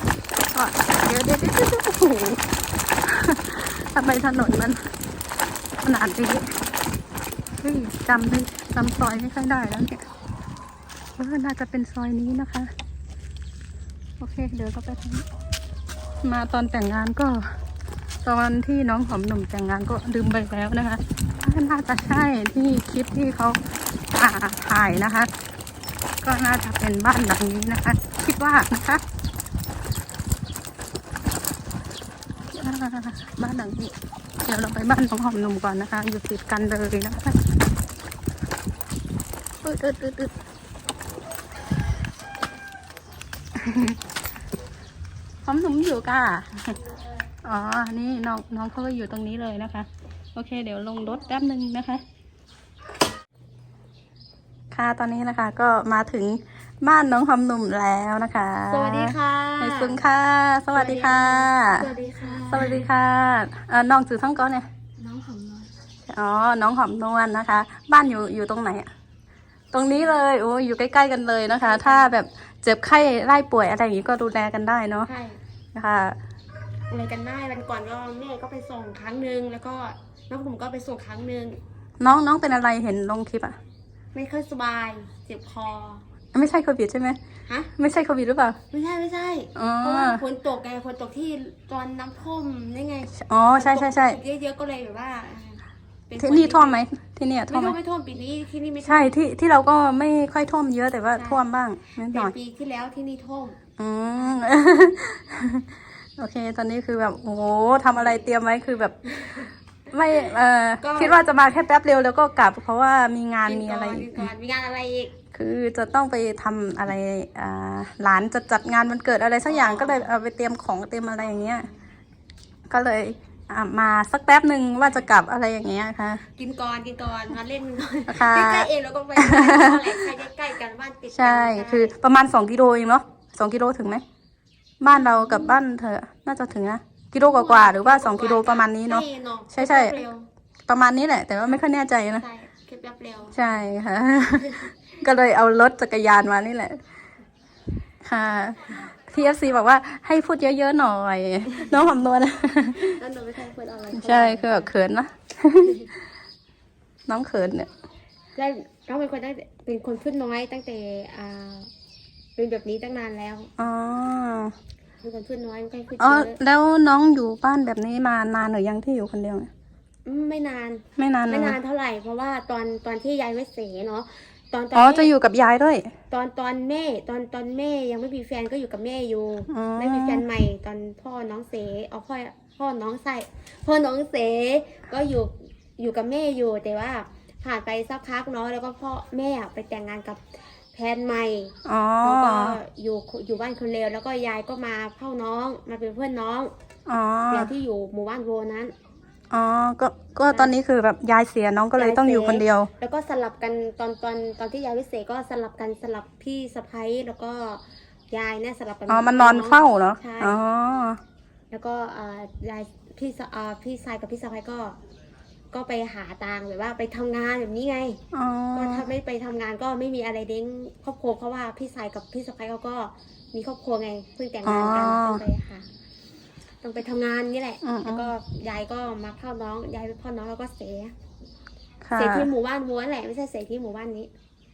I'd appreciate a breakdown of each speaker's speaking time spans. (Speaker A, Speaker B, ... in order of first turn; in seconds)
Speaker A: 0.5-2.5, 3.0-4.9, 5.8-6.5, 7.6-10.1, 11.2-12.7, 14.2-15.3, 16.2-17.5, 18.2-23.6, 24.1-25.3, 26.2-29.0, 32.5-37.5, 39.6-40.4, 43.6-44.0, 45.5-46.8, 47.4-52.0, 54.7-64.7, 66.1-68.9, 69.7-75.1, 75.8-76.2, 82.0-83.6, 86.3-87.2, 87.8-88.6, 89.5-90.2, 93.1-94.2, 96.2-97.8, 98.8-102.3, 103.8-114.3, 115.3-121.7, 122.7-126.3, 128.1-130.1, 131.1-134.0, 134.8-140.0, 140.7-142.3, 143.3-146.8, 148.0-153.0, 153.9-156.0, 157.1-157.7, 163.6-164.5, 166.0-169.5, 171.0-171.6, 174.7-175.9, 179.5-180.2, 191.7-192.6, 196.9-197.5, 199.3-202.7, 208.9-211.0, 218.1-218.8, 224.4-225.2, 227.6-228.1, 231.8-232.3
Speaker B: 46.8-47.3, 58.7-60.0, 60.7-62.9, 65.0-65.7, 71.5-72.1, 75.1-75.4, 76.9-81.6, 84.1-86.0, 88.7-96.8, 97.5-99.2, 101.2-101.4, 102.1-103.6, 104.2-105.0, 110.8-111.2, 113.5-115.2, 119.5-120.1, 126.4-131.9, 134.9-135.6, 137.2-140.3, 142.1-143.4, 152.8-154.7, 158.3-161.7, 162.4-163.5, 165.0-166.4, 170.1-175.1, 176.1-196.5, 197.3-198.7, 201.8-210.4, 211.5-214.8, 215.5-218.0, 218.5-225.7, 226.6-230.9, 232.0-234.1